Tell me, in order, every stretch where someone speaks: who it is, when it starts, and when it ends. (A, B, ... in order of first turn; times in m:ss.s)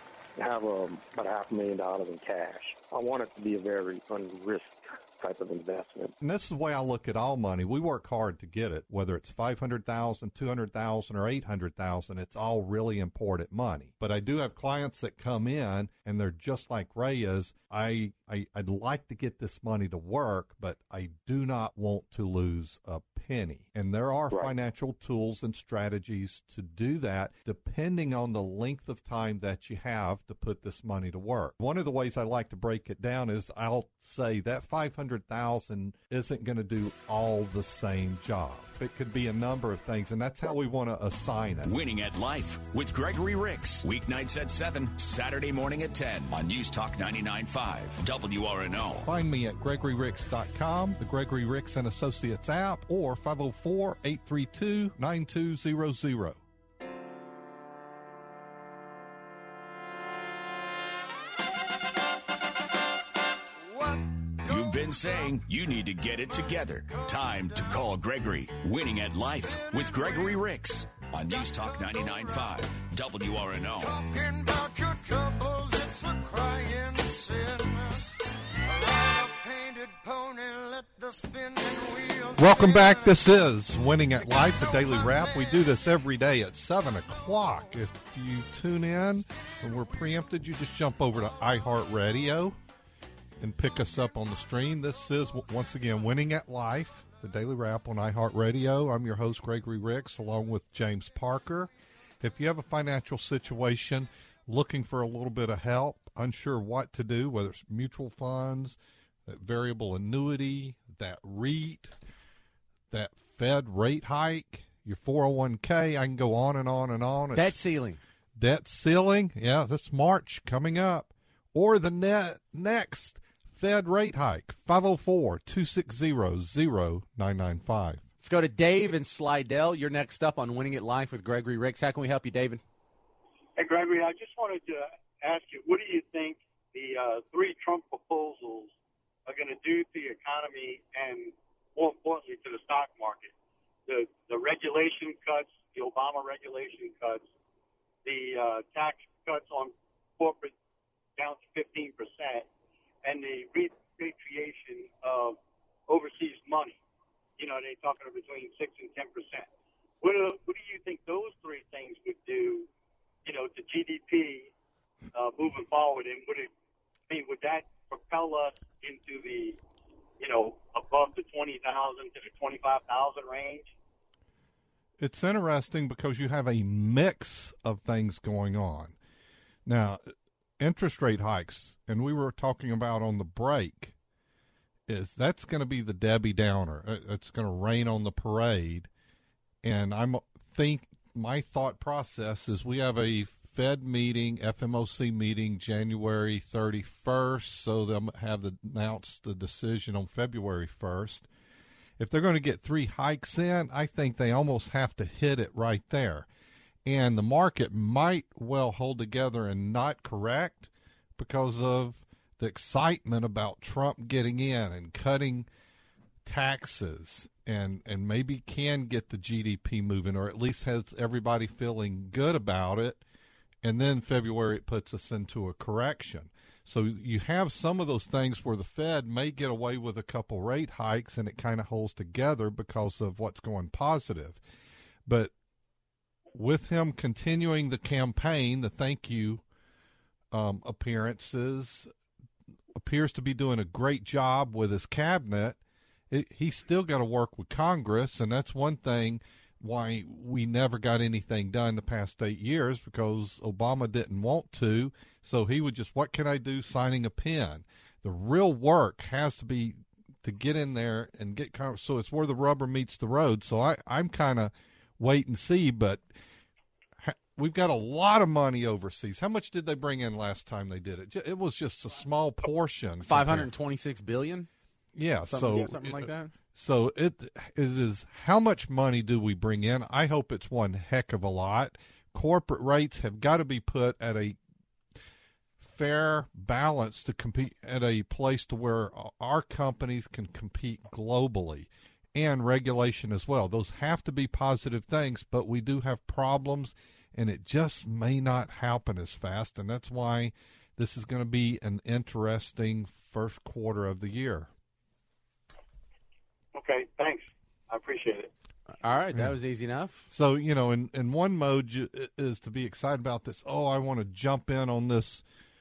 0:00.4-0:06.1 A
0:06.2-0:41.8 B
0:41.6-0:49.1 C
0:49.0-0:56.4 B
1:03.7-1:05.4 D
1:04.5-1:14.0 C
1:06.4-1:07.9 D
1:09.2-1:10.5 D
1:11.2-1:12.7 D
1:13.8-1:18.0 D
1:18.7-1:23.3 D
1:22.4-1:32.6 B
1:24.2-1:25.6 D
1:33.4-1:51.9 B
1:52.9-1:57.6 B
1:57.3-1:58.0 E
1:58.4-2:08.0 B
2:08.2-2:12.6 E
2:13.6-2:18.7 F
2:19.3-2:23.3 F
2:23.9-2:27.3 F
2:28.0-2:30.5 F
2:31.2-2:32.5 F
2:33.0-2:36.8 F
2:37.4-2:39.5 F
2:40.0-2:42.7 F
2:43.2-2:44.5 F
2:45.1-2:46.5 F
2:47.1-2:49.6 F
2:50.2-2:53.7 F
2:55.0-2:59.0 B
2:59.7-3:03.9 B
3:04.9-3:08.9 B
3:09.6-3:21.3 B
3:22.0-3:26.3 B
3:26.8-3:35.5 B
3:36.2-3:43.0 B
3:43.6-3:54.4 B
3:55.1-3:55.3 B
3:56.3-3:59.4 B
4:00.3-4:01.9 B
4:02.7-4:05.6 B
4:06.1-4:26.1 B
4:27.0-4:33.5 B
4:33.0-4:34.5 E
4:35.0-4:44.4 B
4:35.3-4:36.3 E
4:45.6-5:04.5 B
5:06.6-5:08.3 F
5:08.8-5:10.1 E
5:10.1-5:15.2 B